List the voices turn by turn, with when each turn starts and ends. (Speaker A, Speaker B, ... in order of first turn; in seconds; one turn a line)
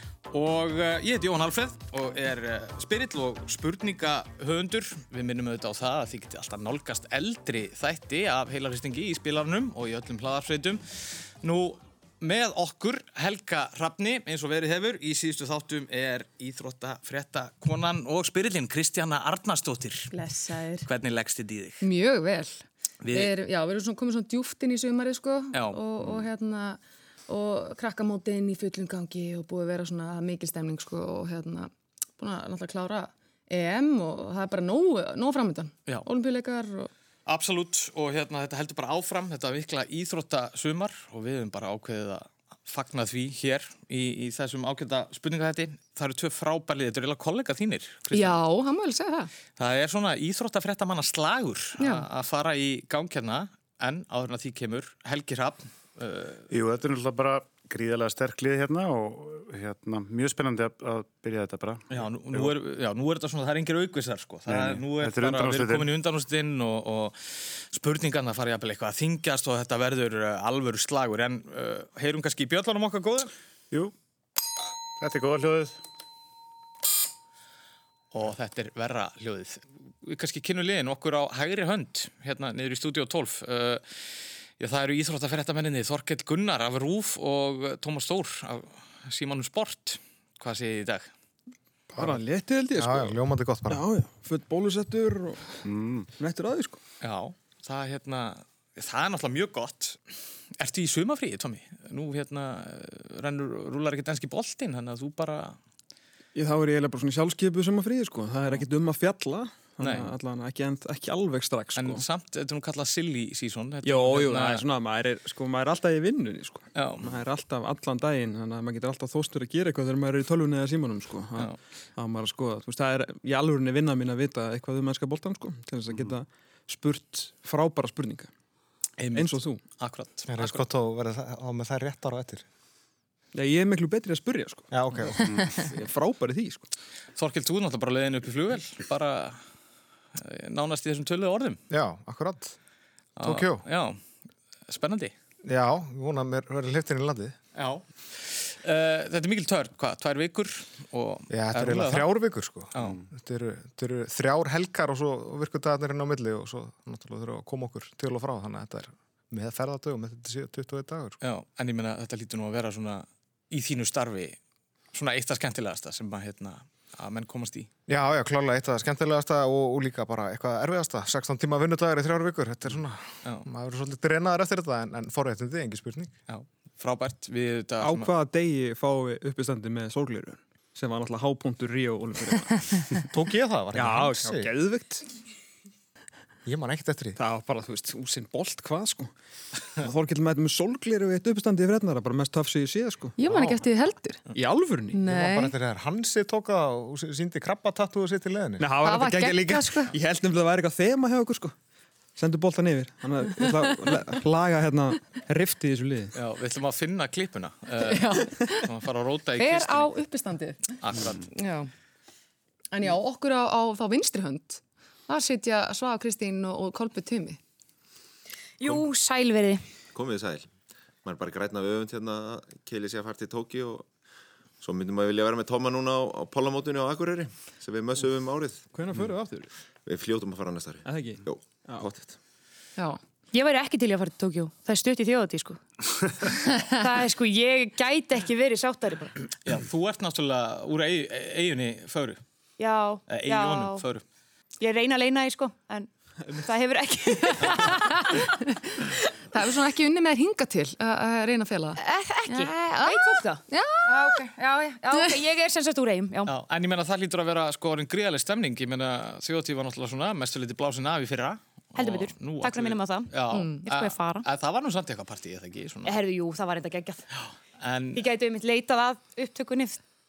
Speaker A: 0.3-10.8
Speaker A: 11.4-20.1
Speaker B: 20.1-20.8
Speaker A: 20.9-21.8
Speaker C: 21.8-36.9
Speaker A: 23.0-23.3
Speaker A: 25.5-25.8
Speaker A: 37.2-48.4
Speaker C: 48.1-49.3
Speaker A: 49.6-56.5
Speaker C: 51.8-52.1
Speaker D: 56.5-62.5
Speaker A: 61.9-67.2
Speaker D: 64.5-65.9
Speaker A: 67.7-73.3
Speaker D: 75.0-75.8
Speaker A: 78.1-83.8
Speaker A: 84.6-91.1
Speaker E: 91.9-95.5
Speaker F: 92.7-93.8
Speaker D: 95.6-96.1
Speaker E: 96.2-96.8
Speaker A: 97.0-100.0
Speaker A: 100.6-105.6
Speaker E: 106.3-112.0
Speaker A: 109.8-110.1
Speaker A: 111.8-114.6
Speaker E: 113.8-128.3
Speaker A: 116.7-117.1
Speaker A: 129.0-130.6
Speaker E: 129.1-129.6
Speaker F: 130.3-132.4
Speaker E: 133.3-134.7
Speaker F: 134.7-135.4
Speaker E: 135.4-136.7
Speaker A: 137.2-139.4
Speaker A: 140.1-141.6
Speaker F: 141.7-142.6
Speaker A: 143.2-144.0
Speaker F: 143.2-143.6
Speaker A: 144.7-145.1
Speaker F: 145.4-147.3
Speaker A: 147.5-152.1
Speaker F: 151.3-161.2
Speaker A: 161.2-164.4
Speaker A: 164.9-167.7
Speaker F: 167.9-176.1
Speaker A: 176.3-178.1
Speaker E: 177.8-182.8
Speaker F: 183.1-184.5
Speaker E: 183.7-185.0
Speaker F: 186.4-187.2
Speaker E: 187.2-189.1
Speaker E: 189.8-193.6
Speaker C: 193.2-194.2
Speaker E: 194.3-195.0
Speaker C: 194.9-195.5
Speaker F: 195.1-198.7
Speaker E: 198.6-201.5
Speaker C: 198.8-199.9
Speaker E: 202.2-206.1
Speaker A: 206.1-209.9
Speaker C: 207.8-208.7
Speaker C: 209.4-210.6
Speaker A: 210.8-211.3
Speaker C: 211.3-211.7
Speaker C: 212.7-217.4
Speaker B: 218.6-219.6
Speaker G: 219.9-220.5
Speaker G: 221.0-223.9
Speaker G: 224.6-228.6
Speaker E: 228.7-229.5
Speaker G: 229.8-232.2
Speaker E: 230.8-231.9
Speaker B: 233.3-235.6
Speaker B: 236.2-239.1
Speaker A: 239.4-242.2
Speaker B: 242.6-243.8
Speaker A: 243.1-244.0
Speaker B: 244.6-245.9
Speaker B: 246.4-248.3
Speaker C: 247.2-254.3
Speaker B: 251.8-256.3
Speaker A: 256.2-265.9
Speaker B: 261.7-264.2
Speaker C: 263.3-263.6
Speaker B: 265.8-267.0
Speaker A: 267.6-268.0
Speaker B: 267.9-269.8